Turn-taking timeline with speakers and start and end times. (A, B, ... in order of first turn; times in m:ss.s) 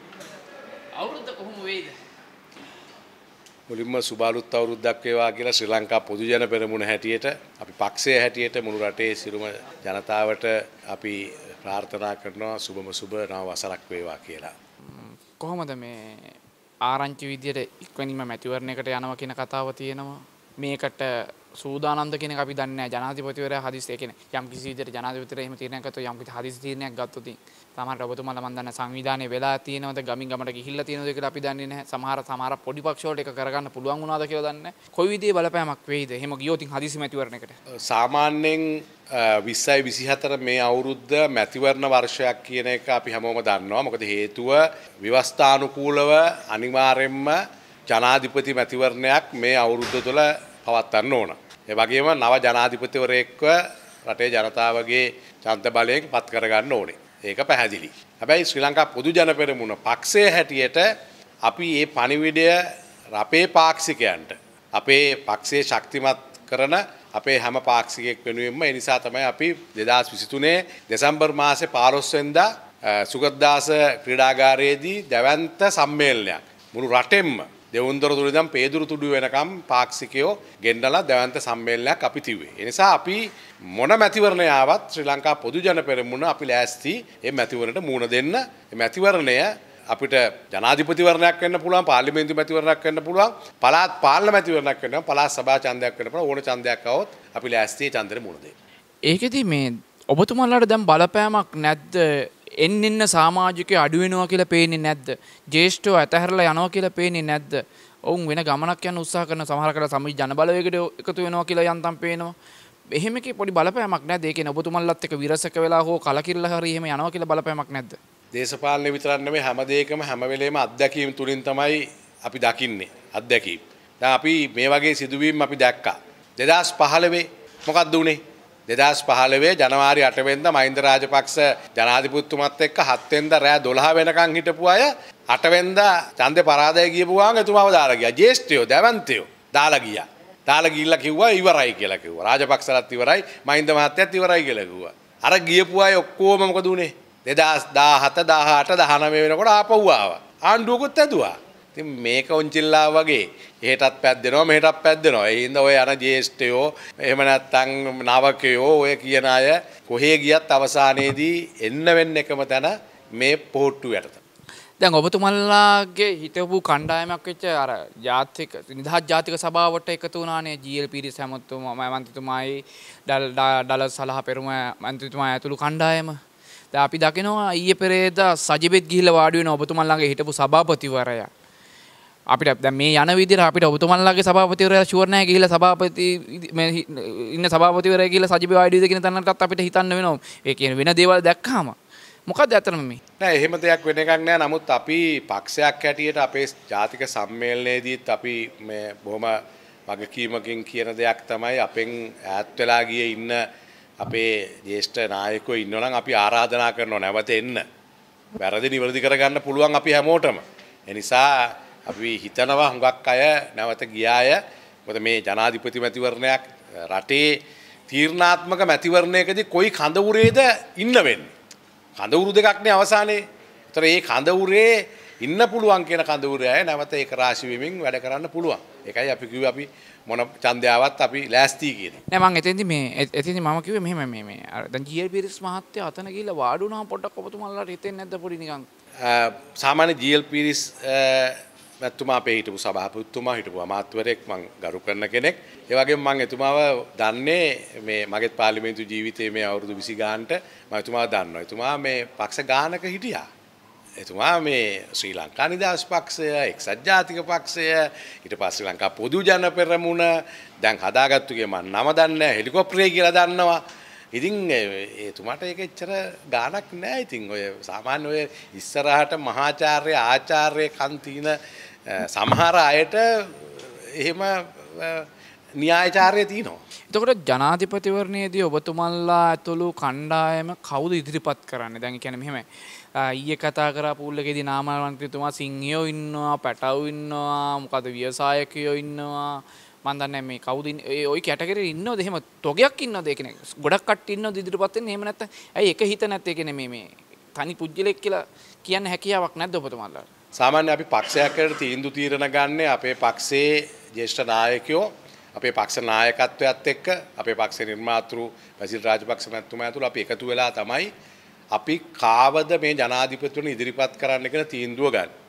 0:01.0-0:02.0 A
0:03.7-0:14.5 B
0:14.9-0:37.6 A
0:37.8-1:00.9 B
1:01.4-1:38.5 B
1:39.1-1:52.4 A
1:52.9-1:58.0 A
1:58.3-2:44.2 B
2:44.8-2:56.2 A
2:56.7-3:01.3 A
3:02.3-3:13.0 A
3:13.2-3:23.4 B
3:24.0-3:27.6 B
3:28.4-3:41.3 B
3:42.0-3:52.0 B
3:52.1-3:58.7 A
3:59.0-4:13.3 B
4:14.0-4:23.6 B
4:24.1-4:35.1 B
4:35.6-4:36.6 B
4:36.9-5:00.1 A
5:00.4-5:10.9 B
5:11.5-5:15.1 B